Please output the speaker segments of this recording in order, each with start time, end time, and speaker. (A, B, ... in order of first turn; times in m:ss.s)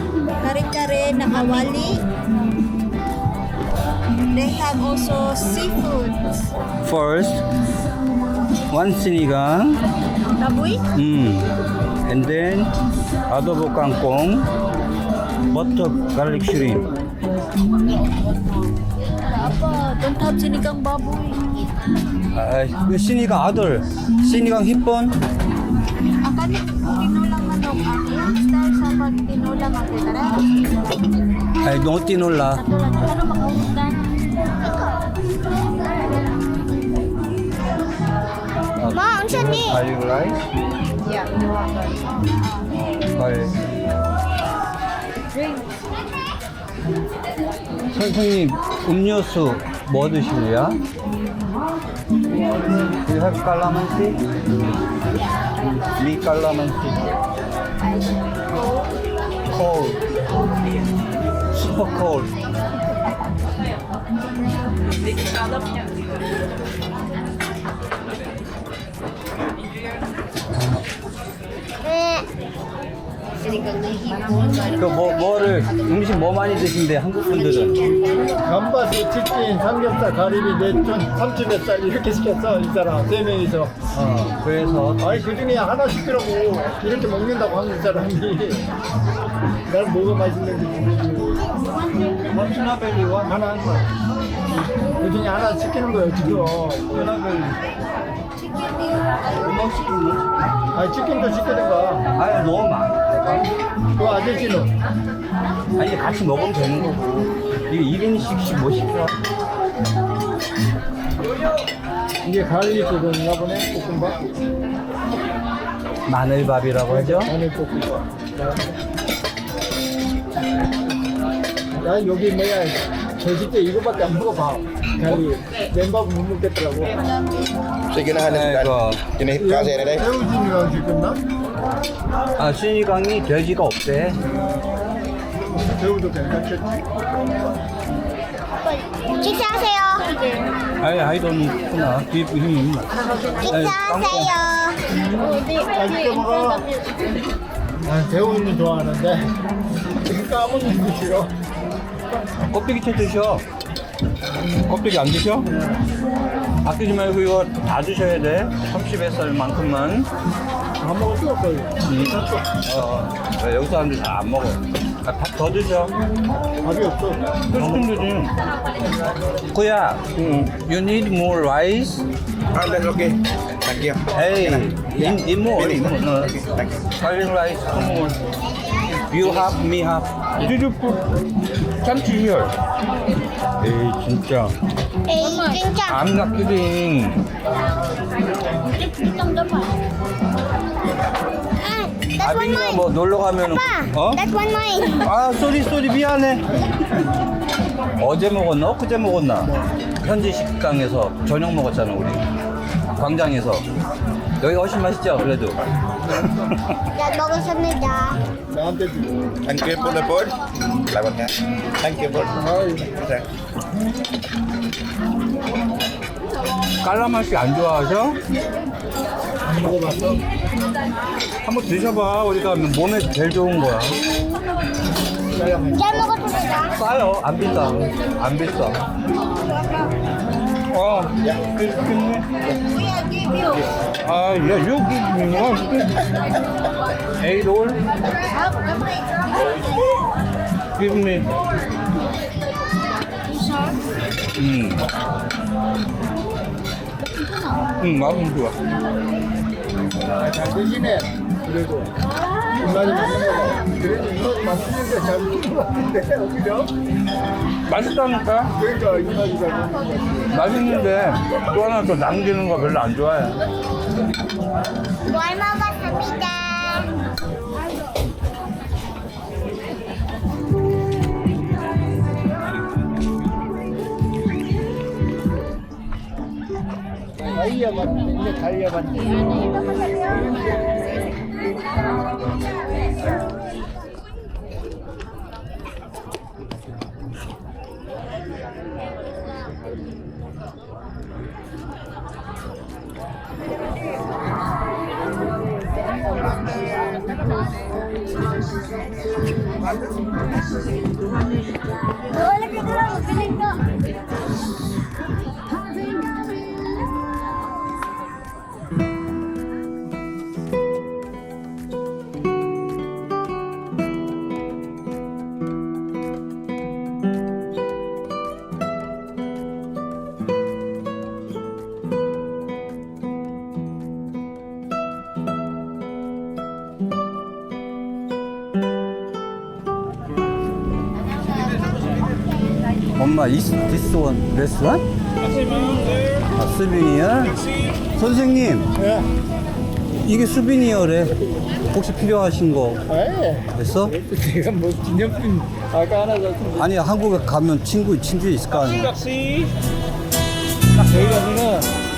0:00.4-0:02.0 A
0:04.3-0:06.3 A
0:06.8-0:07.4 B
0:08.7-0:09.8 B
0:10.4-0:10.8 A
0:10.9-0:12.7 B
0:13.3-0:14.5 B
0:15.5-0:16.9 B
0:19.2-0:21.7 A
0:22.3-0:25.2 B
0:26.2-0:30.5 A
0:31.6-0:32.6 B
0:32.5-0:34.0 A
0:38.8-0:40.5 B
0:38.9-0:39.8 A
0:41.0-0:42.6 A
0:42.7-0:43.6 B
0:45.3-0:45.8 A
0:47.9-0:50.8 B
0:52.8-0:54.2 B
0:55.8-0:57.0 B
0:58.6-0:58.9 A
0:59.5-1:00.0 B
1:01.5-1:02.3 B
1:11.9-1:12.2 C
1:13.4-1:15.7 A
1:14.7-1:17.8 B
1:17.4-1:18.0 A
1:18.1-1:23.8 D
1:23.9-1:25.2 B
1:25.0-1:28.6 D
1:29.6-1:31.5 D
1:32.3-1:33.3 B
1:33.2-1:33.9 D
1:34.5-1:37.0 D
1:36.9-1:37.6 B
1:38.6-1:39.3 A
1:39.3-1:40.3 B
1:40.7-1:42.1 D
1:42.2-1:43.4 B
1:44.0-1:44.7 D
1:45.7-1:49.2 B
1:52.2-1:54.2 D
1:56.1-1:57.3 B
1:56.9-1:58.8 D
2:01.8-2:07.0 D
2:07.9-2:09.9 E
2:08.2-2:09.2 B
2:09.4-2:11.2 D
2:12.4-2:14.2 B
2:15.3-2:16.8 D
2:18.6-2:20.5 A
2:19.2-2:20.1 C
2:20.8-2:22.9 B
2:23.3-2:23.6 A
2:23.4-2:24.3 B
2:23.5-2:24.8 C
2:24.3-2:27.0 A
2:25.6-2:26.6 D
2:27.8-2:29.3 D
2:29.9-2:31.3 D
2:32.4-2:33.4 B
2:34.5-2:35.5 B
2:35.4-2:35.8 D
2:36.6-2:40.1 B
2:40.8-2:42.4 D
2:41.8-2:45.9 B
2:46.6-2:47.3 D
2:47.5-2:48.3 B
2:49.5-2:52.0 B
2:52.5-2:54.0 E
2:54.1-2:58.2 B
2:58.8-3:01.1 B
3:01.8-3:02.5 B
3:02.9-3:03.2 A
3:03.6-3:04.5 B
3:05.1-3:05.9 A
3:05.1-3:05.9 C
3:05.8-3:07.2 B
3:08.5-3:09.8 A
3:11.6-3:12.8 C
3:12.2-3:14.2 B
3:13.5-3:15.0 C
3:14.3-3:14.9 A
3:15.0-3:17.0 B
3:18.0-3:22.2 B
3:22.9-3:23.6 B
3:24.4-3:25.6 B
3:26.2-3:26.5 D
3:26.2-3:26.8 B
3:27.0-3:28.0 A
3:27.0-3:28.2 C
3:28.4-3:29.3 D
3:29.4-3:30.3 E
3:30.9-3:32.3 E
3:32.3-3:33.0 D
3:36.8-3:38.2 B
3:39.4-3:40.2 D
3:41.4-3:44.0 B
3:45.3-3:46.2 D
3:45.9-3:46.7 C
3:46.2-3:46.7 A
3:46.7-3:48.8 B
3:49.5-3:49.9 A
3:50.7-3:52.3 B
3:52.5-3:53.7 A
3:54.0-3:56.1 B
3:57.2-3:57.8 B
3:58.3-3:59.6 A
4:00.8-4:01.3 B
4:03.2-4:03.8 A
4:04.3-4:04.8 B
4:07.0-4:07.7 A
4:07.8-4:08.5 B
4:10.1-4:11.9 D
4:12.2-4:13.4 A
4:12.5-4:16.7 D
4:17.7-4:18.5 B
4:18.5-4:20.3 D
4:20.3-4:23.4 B
4:25.0-4:26.9 C
4:37.3-4:39.4 D
5:02.1-5:03.6 A
5:32.9-5:34.8 B
5:36.3-5:38.7 B
5:38.8-5:39.1 D
5:40.0-5:42.8 B
5:42.9-5:46.7 D
5:43.5-5:43.9 B
5:46.6-5:49.4 B
5:50.8-5:51.7 D